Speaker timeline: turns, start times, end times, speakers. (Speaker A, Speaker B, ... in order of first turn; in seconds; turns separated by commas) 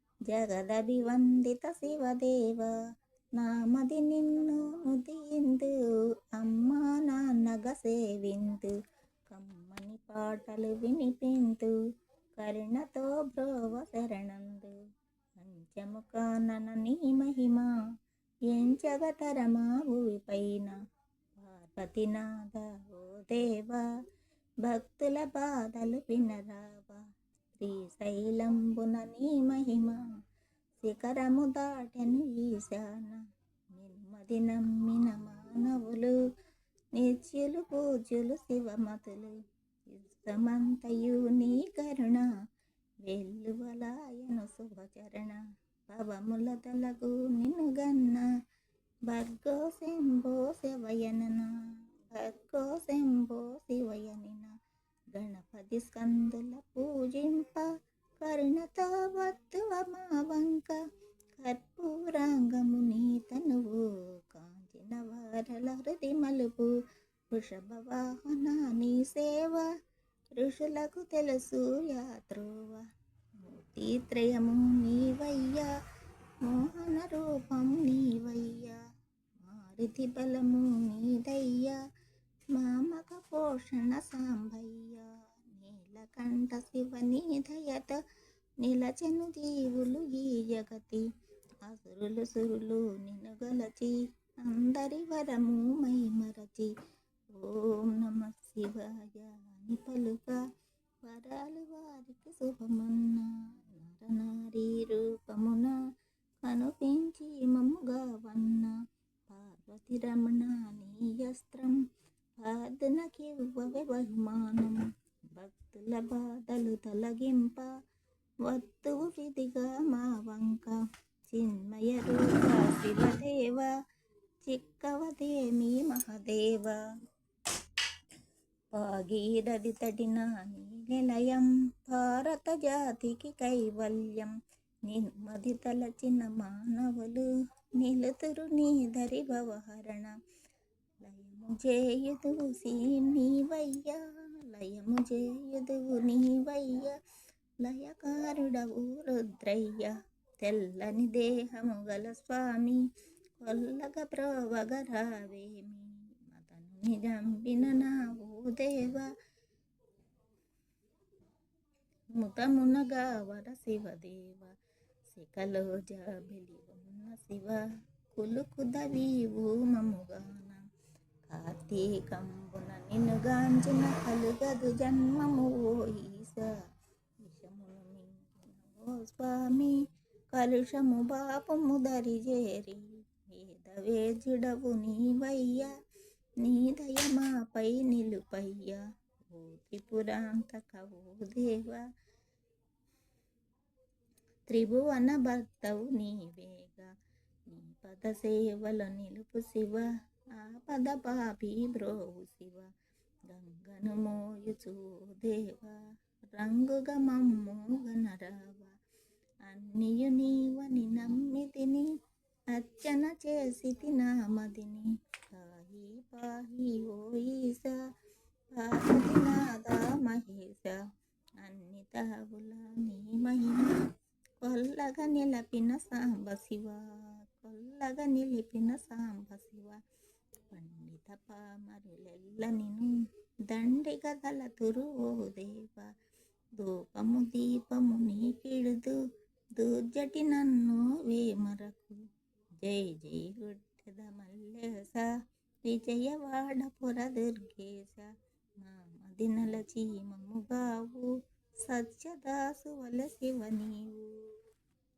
Speaker A: 0.3-2.7, Speaker A: 3.4-5.7, Speaker A: 6.3-8.7, Speaker A: 9.3-11.7, Speaker A: 12.4-14.7, Speaker A: 15.4-17.7, Speaker A: 18.5-20.8, Speaker A: 21.4-23.9, Speaker A: 24.6-27.0, Speaker A: 27.6-30.0, Speaker A: 30.8-33.2, Speaker A: 33.7-36.1, Speaker A: 36.9-39.4, Speaker A: 39.9-42.2, Speaker A: 43.0-48.3, Speaker A: 49.1-51.5, Speaker A: 52.1-54.5, Speaker A: 55.1-57.7, Speaker A: 58.2-60.8, Speaker A: 61.4-66.7, Speaker A: 67.3-69.7, Speaker A: 70.4-72.8, Speaker A: 73.5-75.7, Speaker A: 76.4-78.8, Speaker A: 79.4-81.8, Speaker A: 82.5-88.0, Speaker A: 88.6-91.1, Speaker A: 91.6-96.7, Speaker A: 97.3-100.4, Speaker A: 101.0-105.8, Speaker A: 106.4-108.7, Speaker A: 109.3-111.8, Speaker A: 112.4-114.8, Speaker A: 115.4-117.7, Speaker A: 118.4-120.8, Speaker A: 121.3-123.7, Speaker A: 124.4-126.8, Speaker A: 128.7-134.3, Speaker A: 134.9-137.3, Speaker A: 137.8-140.2, Speaker A: 141.0-146.9, Speaker A: 147.6-152.8, Speaker A: 153.4-159.1, Speaker A: 162.2-164.5, Speaker A: 165.1-167.6, Speaker A: 168.2-170.6, Speaker A: 171.3-176.5, Speaker A: 177.2-179.7, Speaker A: 180.3-185.7, Speaker A: 186.4-188.8, Speaker A: 189.3-191.8, Speaker A: 194.5-196.9, Speaker A: 197.5-202.7, Speaker A: 203.3-205.8, Speaker A: 206.3-208.7, Speaker A: 209.4-211.9, Speaker A: 212.5-217.8, Speaker A: 218.5-220.8, Speaker A: 221.4-223.9, Speaker A: 224.4-226.8, Speaker A: 227.4-229.8, Speaker A: 230.5-232.9, Speaker A: 233.5-235.9, Speaker A: 236.6-239.0, Speaker A: 239.6-242.0, Speaker A: 242.6-245.1, Speaker A: 245.7-248.1, Speaker A: 248.6-251.1, Speaker A: 251.7-254.1